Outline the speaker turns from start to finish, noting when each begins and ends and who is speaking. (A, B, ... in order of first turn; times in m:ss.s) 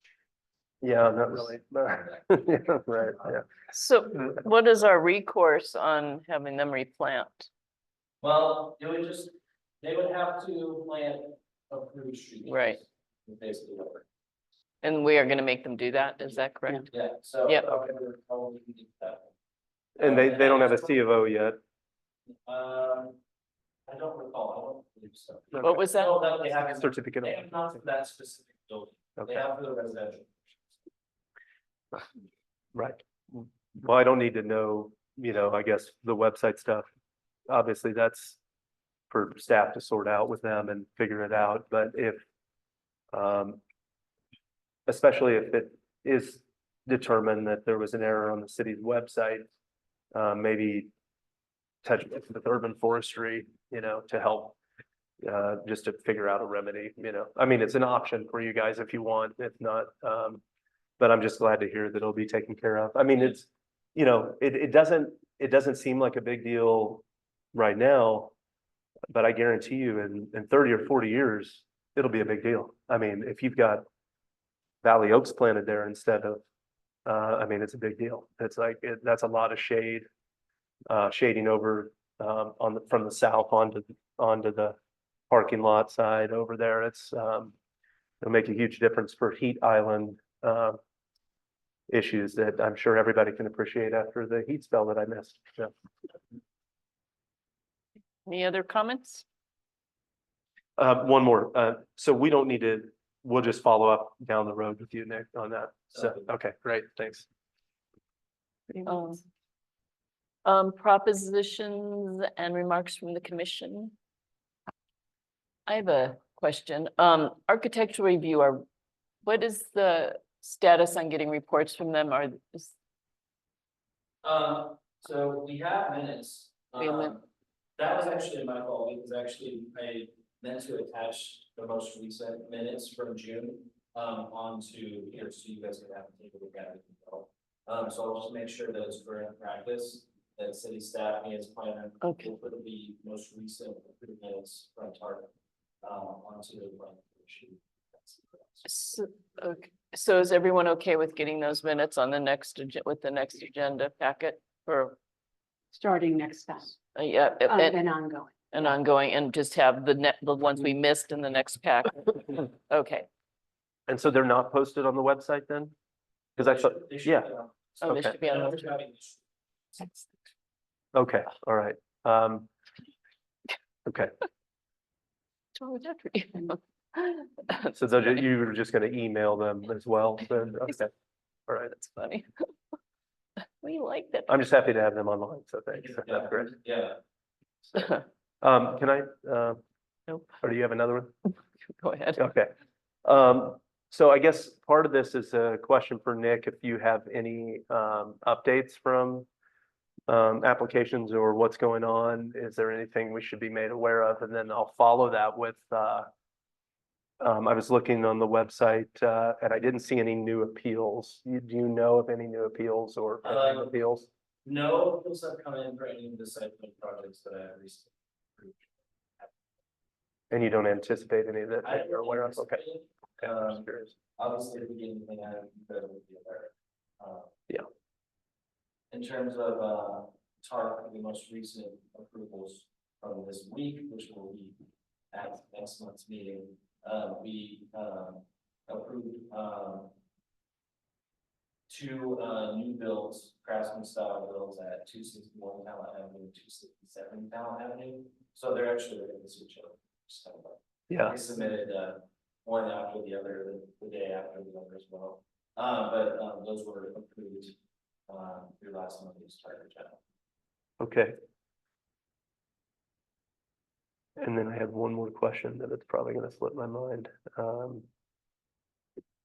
0:00.8-0:03.4 A
0:03.7-0:07.5 B
0:08.2-0:14.0 C
0:12.4-0:12.8 B
0:14.8-0:16.9 B
0:16.9-0:19.3 C
0:20.0-0:21.6 A
0:20.0-0:21.0 C
0:22.4-0:23.2 C
0:23.9-0:30.8 C
0:25.5-0:25.8 A
0:25.6-0:26.2 B
0:26.6-0:27.4 A
0:32.7-0:36.8 A
0:37.5-0:38.4 A
0:39.1-0:42.2 A
0:43.1-0:43.6 A
0:44.9-0:49.5 A
0:50.1-0:50.9 A
0:51.8-0:54.6 A
0:55.2-1:00.4 A
1:01.0-1:07.0 A
1:07.5-1:08.3 A
1:09.1-1:13.8 A
1:14.8-1:16.4 A
1:17.0-1:20.0 A
1:20.9-1:24.8 A
1:25.3-1:27.5 A
1:28.2-1:30.8 A
1:31.9-1:35.7 A
1:38.2-1:39.2 B
1:40.8-1:47.2 A
1:48.8-1:49.2 B
1:50.4-1:53.9 B
1:55.7-1:58.6 B
1:59.2-2:02.7 B
2:04.2-2:07.2 C
2:06.8-2:07.2 B
2:07.8-2:25.3 C
2:22.0-2:22.3 B
2:25.8-2:28.7 C
2:28.6-2:35.0 B
2:35.7-2:36.8 D
2:36.9-2:37.8 B
2:37.5-2:38.6 D
2:38.5-2:43.1 B
2:43.9-2:45.7 A
2:46.4-2:47.3 A
2:46.4-2:49.2 C
2:47.8-2:48.6 B
2:47.8-2:48.2 A
2:49.8-2:50.0 C
2:50.9-2:52.5 A
2:53.8-2:54.1 A
2:55.6-2:57.8 B
2:57.7-3:00.9 A
3:01.7-3:02.3 B
3:03.6-3:04.3 B
3:04.3-3:06.6 A
3:05.7-3:07.0 C
3:07.8-3:08.0 B
3:08.4-3:09.6 A
3:10.3-3:11.2 A
3:11.6-3:12.2 B
3:12.2-3:12.5 A
3:13.0-3:19.3 A
3:20.1-3:26.1 A
3:27.2-3:34.1 A
3:33.2-3:33.7 C
3:34.4-3:39.3 C
3:40.3-3:42.6 A
3:41.6-3:47.4 C
3:43.2-3:43.9 A
3:48.9-3:54.6 C
3:55.1-3:59.9 C
4:01.7-4:17.6 C
4:10.9-4:11.2 A
4:18.1-4:20.0 C
4:20.8-4:21.1 A
4:24.2-4:27.8 A